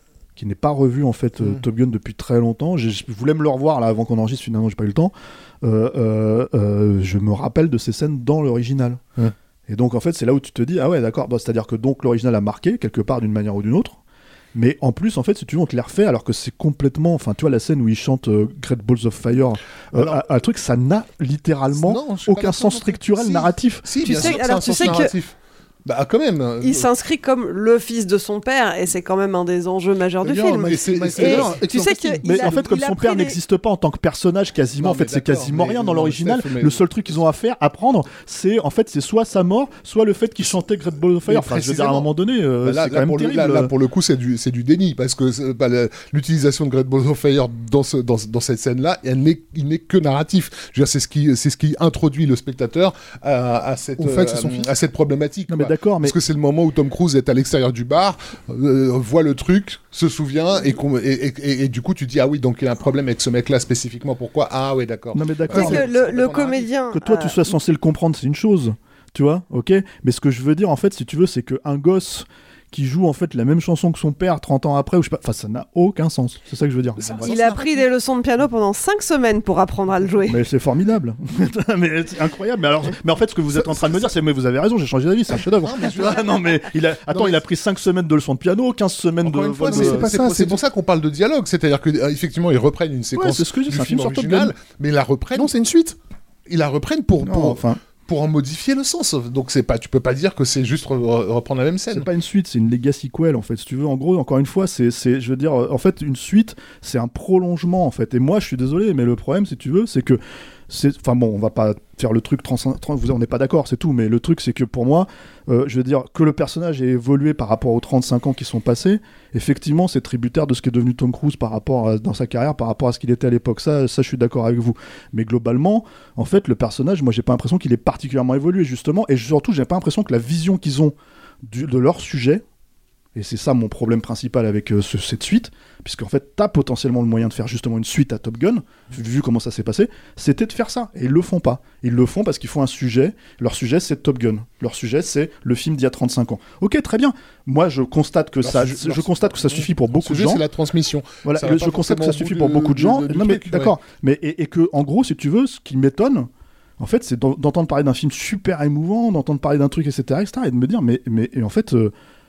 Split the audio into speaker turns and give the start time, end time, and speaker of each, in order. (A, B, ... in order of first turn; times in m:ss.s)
0:00.4-0:09.0 A
0:09.7-0:14.0 A
0:14.5-0:24.9 A
0:20.0-0:20.2 B
0:21.7-0:26.9 B
0:24.0-0:25.1 C
0:26.6-0:33.4 C
0:30.2-0:32.6 D
0:30.3-0:31.5 B
0:32.2-0:43.7 A
0:34.8-0:37.0 B
0:41.3-0:42.1 B
0:42.6-1:06.7 B
0:54.0-0:54.7 D
0:55.5-0:56.1 A
1:05.1-1:05.9 A
1:05.5-1:07.4 C
1:06.9-1:17.1 A
1:17.0-1:17.9 B
1:17.2-1:20.4 C
1:20.3-1:30.1 A
1:23.7-1:24.0 D
1:25.6-1:26.6 B
1:29.2-1:35.5 B
1:29.7-1:30.6 D
1:33.1-1:34.5 A
1:35.4-1:36.0 D
1:36.5-1:42.1 B
1:37.2-1:37.8 A
1:41.9-2:11.0 A
2:11.5-2:12.4 A
2:13.1-2:30.4 A
2:28.4-2:33.8 B
2:31.2-2:36.3 A
2:36.8-2:41.9 A